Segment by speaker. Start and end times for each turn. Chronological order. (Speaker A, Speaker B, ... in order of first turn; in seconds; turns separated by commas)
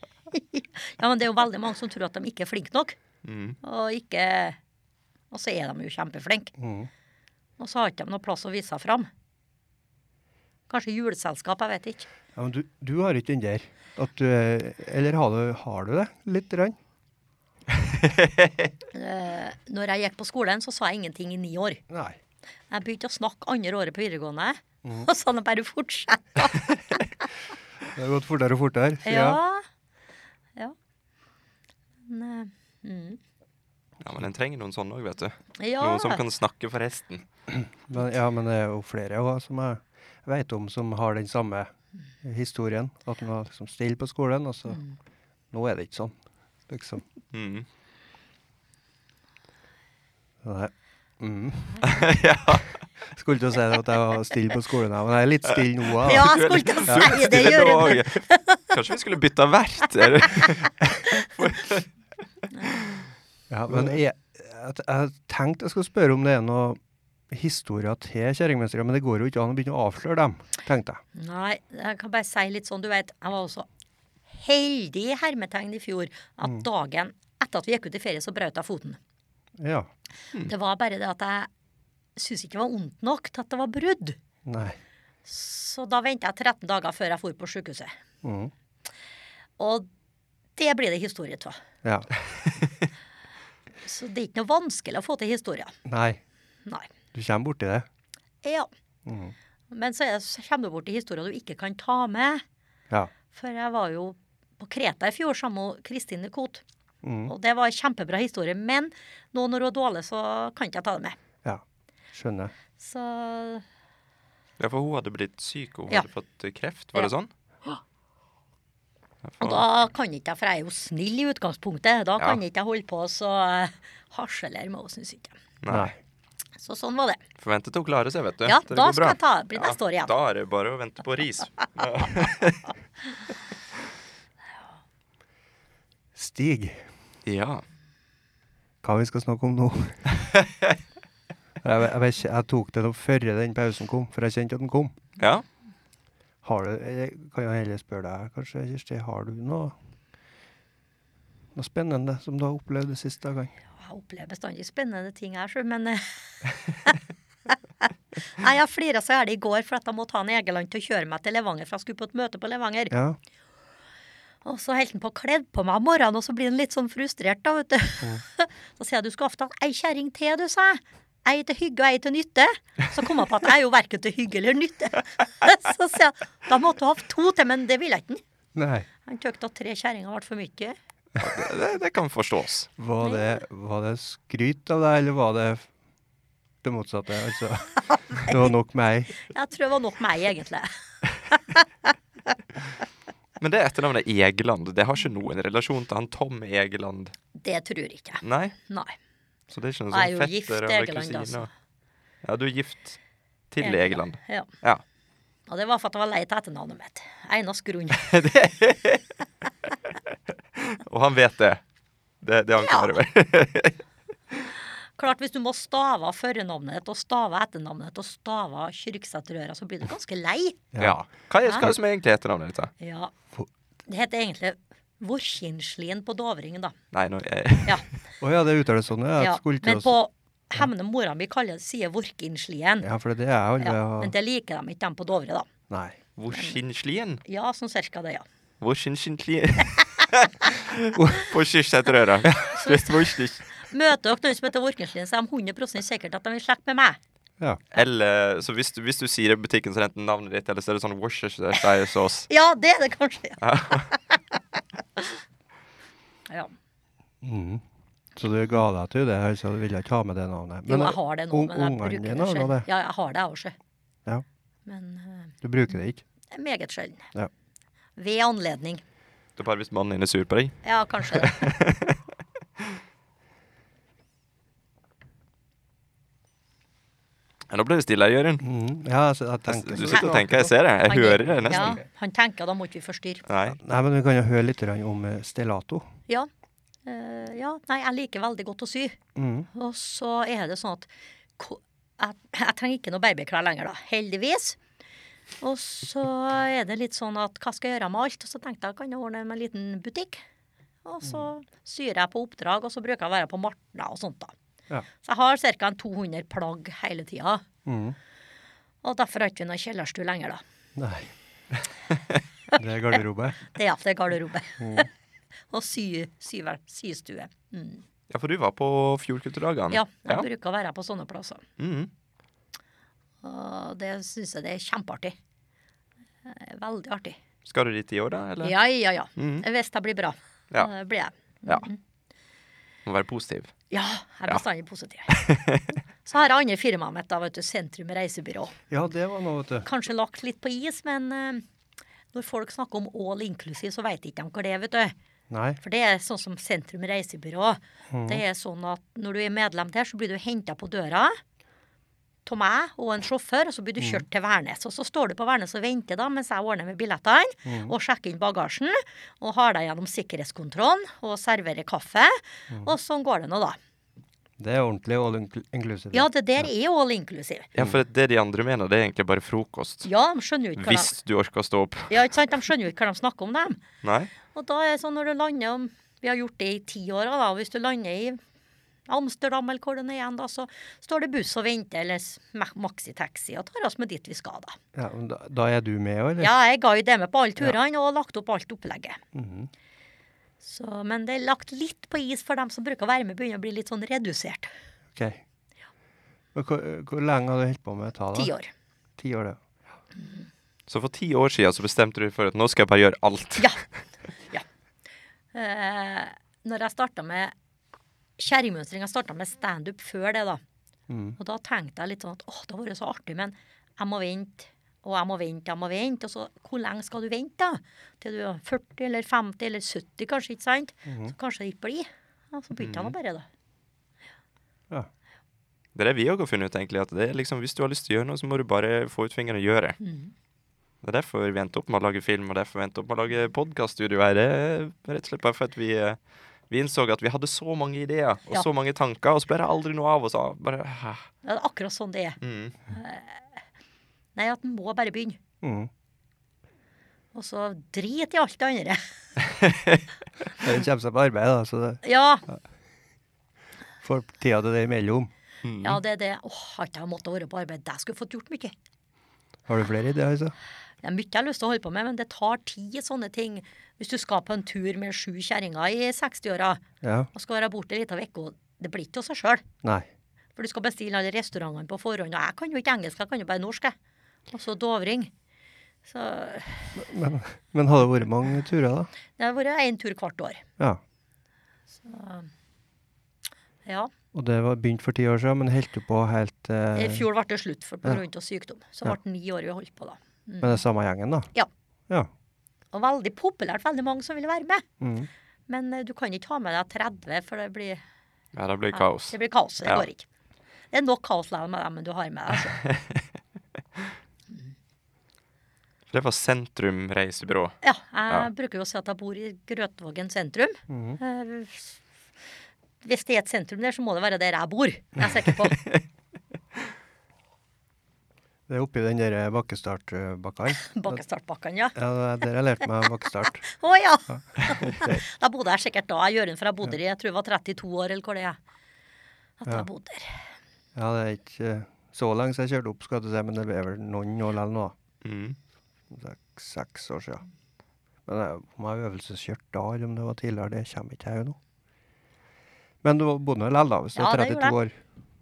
Speaker A: 0.3-3.0, Speaker B: 3.2-3.6, Speaker A: 3.6-4.6, Speaker A: 5.3-6.5, Speaker C: 6.6-6.9, Speaker A: 7.6-9.1, Speaker A: 10.7-12.1, Speaker C: 12.3-16.8, Speaker B: 17.7-18.7, Speaker A: 18.9-21.8, Speaker C: 21.9-22.2, Speaker A: 22.7-27.0, Speaker C: 27.9-29.4, Speaker A: 29.1-29.6, Speaker A: 32.1-33.2, Speaker B: 34.0-37.2, Speaker A: 35.6-36.2, Speaker C: 37.5-41.7, Speaker C: 42.2-44.8, Speaker C: 45.5-47.0, Speaker B: 47.3-47.7, Speaker C: 50.4-51.9, Speaker B: 51.8-52.8, Speaker C: 53.1-57.2, Speaker B: 56.0-61.9, Speaker A: 56.0-58.8, Speaker A: 62.6-62.9, Speaker C: 63.5-71.0, Speaker A: 71.2-73.7, Speaker A: 74.3-79.0, Speaker C: 79.6-79.9, Speaker A: 80.5-81.5, Speaker A: 82.2-84.2, Speaker C: 84.5-84.8, Speaker A: 85.2-88.0, Speaker C: 88.2-88.5, Speaker A: 89.6-89.9, Speaker A: 90.6-91.6, Speaker C: 91.8-92.1, Speaker A: 93.8-95.8, Speaker C: 95.9-96.2, Speaker A: 96.7-96.9, Speaker C: 97.1-97.9, Speaker A: 98.4-98.7, Speaker C: 99.0-99.3, Speaker A: 99.7-102.4, Speaker A: 103.3-106.6, Speaker C: 107.0-107.3, Speaker A: 107.3-111.2, Speaker C: 111.4-112.5, Speaker A: 112.8-113.7, Speaker B: 114.6-117.3, Speaker B: 119.2-119.7, Speaker A: 119.4-125.4, Speaker B: 125.6-125.9, Speaker C: 125.7-126.0, Speaker A: 126.6-127.2, Speaker B: 127.4-132.7, Speaker A: 128.5-130.1, Speaker C: 136.2-136.9, Speaker B: 137.2-137.6, Speaker C: 138.8-140.1, Speaker C: 141.6-144.9, Speaker B: 145.2-145.4, Speaker C: 146.4-149.8, Speaker C: 151.6-153.6, Speaker A: 153.8-162.9, Speaker C: 162.9-163.2, Speaker A: 164.4-178.2, Speaker C: 178.6-178.9, Speaker A: 179.1-180.8, Speaker B: 181.2-182.7, Speaker C: 182.8-185.7, Speaker A: 183.0-183.4, Speaker C: 186.6-189.2, Speaker A: 189.3-190.7, Speaker A: 191.3-191.9, Speaker B: 193.4-197.1, Speaker A: 197.3-198.9, Speaker B: 198.2-198.6, Speaker B: 199.5-201.5, Speaker A: 199.9-201.5, Speaker B: 202.2-203.0, Speaker B: 203.5-204.8, Speaker A: 203.6-204.5, Speaker A: 205.5-208.2, Speaker B: 208.0-209.0, Speaker B: 210.6-211.6, Speaker B: 212.2-213.8, Speaker A: 212.6-213.0, Speaker A: 215.0-220.6, Speaker B: 220.8-222.7, Speaker A: 222.8-223.1, Speaker A: 223.9-226.8, Speaker B: 226.9-227.8, Speaker C: 228.2-230.0, Speaker A: 229.2-232.9, Speaker C: 232.8-234.1, Speaker A: 233.6-235.5, Speaker C: 235.7-236.0, Speaker B: 236.2-237.2, Speaker A: 237.2-238.3, Speaker B: 238.6-243.5, Speaker C: 240.9-241.3, Speaker C: 242.2-242.6, Speaker A: 242.5-243.0, Speaker A: 243.6-247.0, Speaker B: 247.7-252.3, Speaker A: 252.3-254.2, Speaker B: 253.4-253.9, Speaker A: 256.3-256.5, Speaker C: 257.2-257.6, Speaker C: 258.2-262.7, Speaker A: 260.7-263.6, Speaker A: 264.7-265.4, Speaker C: 265.4-266.0, Speaker A: 266.3-267.1, Speaker A: 268.0-268.8, Speaker B: 269.4-272.0, Speaker A: 270.6-271.5, Speaker B: 277.5-278.4, Speaker C: 278.4-280.5, Speaker B: 279.5-281.8, Speaker A: 279.8-280.2, Speaker A: 280.9-283.2, Speaker C: 281.5-281.8, Speaker B: 283.3-283.6, Speaker C: 283.6-285.9, Speaker A: 286.9-289.0, Speaker C: 289.1-289.5, Speaker A: 289.5-294.6, Speaker A: 295.4-300.2, Speaker A: 300.9-304.3, Speaker A: 305.0-307.4, Speaker C: 307.6-308.0, Speaker A: 308.8-310.4, Speaker C: 310.8-311.1, Speaker C: 312.6-313.5, Speaker A: 313.5-314.9, Speaker C: 314.6-314.9, Speaker A: 315.5-317.8, Speaker B: 318.1-320.3, Speaker A: 319.7-321.4, Speaker B: 321.6-321.9, Speaker A: 323.2-325.2, Speaker A: 326.2-327.2, Speaker B: 327.4-328.6, Speaker A: 328.4-331.8, Speaker B: 329.2-329.4, Speaker B: 332.9-333.5, Speaker A: 333.7-335.2, Speaker B: 335.1-335.7, Speaker A: 336.1-338.6, Speaker C: 338.7-339.7, Speaker A: 339.6-341.4, Speaker A: 342.1-344.9, Speaker C: 345.3-345.6, Speaker A: 345.6-351.2, Speaker C: 347.9-348.2, Speaker A: 352.2-363.6, Speaker C: 357.5-357.7, Speaker C: 364.4-366.5, Speaker A: 365.9-367.5, Speaker B: 367.6-369.9, Speaker A: 369.8-370.9, Speaker B: 370.6-371.9, Speaker A: 371.9-373.6, Speaker B: 373.8-374.1, Speaker A: 374.3-378.2, Speaker A: 378.9-384.6, Speaker C: 384.8-386.3, Speaker A: 386.2-389.0, Speaker C: 389.1-389.5, Speaker A: 390.4-394.5, Speaker C: 394.9-395.2, Speaker C: 396.4-398.3, Speaker A: 398.1-398.5, Speaker C: 399.0-399.4, Speaker B: 400.7-403.5, Speaker A: 405.3-407.3, Speaker A: 408.2-410.4, Speaker C: 410.9-411.2, Speaker A: 411.2-423.3, Speaker C: 420.9-421.1, Speaker B: 422.6-422.9, Speaker B: 425.8-429.8, Speaker A: 429.8-430.1, Speaker B: 430.8-436.0, Speaker B: 436.5-441.1, Speaker A: 441.2-443.4, Speaker B: 442.2-442.6, Speaker A: 444.2-445.2, Speaker C: 445.4-445.7, Speaker A: 447.1-448.8, Speaker B: 449.4-449.8, Speaker C: 450.4-451.8, Speaker A: 451.8-452.3, Speaker C: 453.8-455.1, Speaker B: 455.4-455.8, Speaker A: 455.6-458.5, Speaker C: 459.5-460.4, Speaker A: 460.8-466.6, Speaker C: 466.8-467.1, Speaker A: 467.1-469.4, Speaker A: 470.4-473.8, Speaker A: 474.3-475.1, Speaker A: 475.9-476.8, Speaker C: 476.8-478.9, Speaker A: 479.2-480.4, Speaker A: 481.8-482.3, Speaker A: 483.6-483.9, Speaker C: 484.1-487.1, Speaker A: 486.8-490.6, Speaker C: 490.4-491.3, Speaker A: 492.7-494.6, Speaker C: 494.8-495.1, Speaker A: 495.5-497.8, Speaker B: 498.3-499.9, Speaker A: 498.7-500.1, Speaker A: 500.7-502.6, Speaker B: 502.6-503.0, Speaker B: 505.9-507.6, Speaker A: 507.6-511.8, Speaker C: 510.7-511.0, Speaker A: 512.8-515.6, Speaker B: 515.6-515.8, Speaker C: 518.5-521.0, Speaker A: 520.5-521.8, Speaker C: 521.8-523.5, Speaker A: 523.5-528.4, Speaker C: 524.1-525.0, Speaker A: 529.4-530.3, Speaker C: 530.8-534.8, Speaker B: 535.0-535.4, Speaker C: 535.9-537.2, Speaker C: 538.1-541.4, Speaker C: 542.8-544.8, Speaker A: 544.0-544.6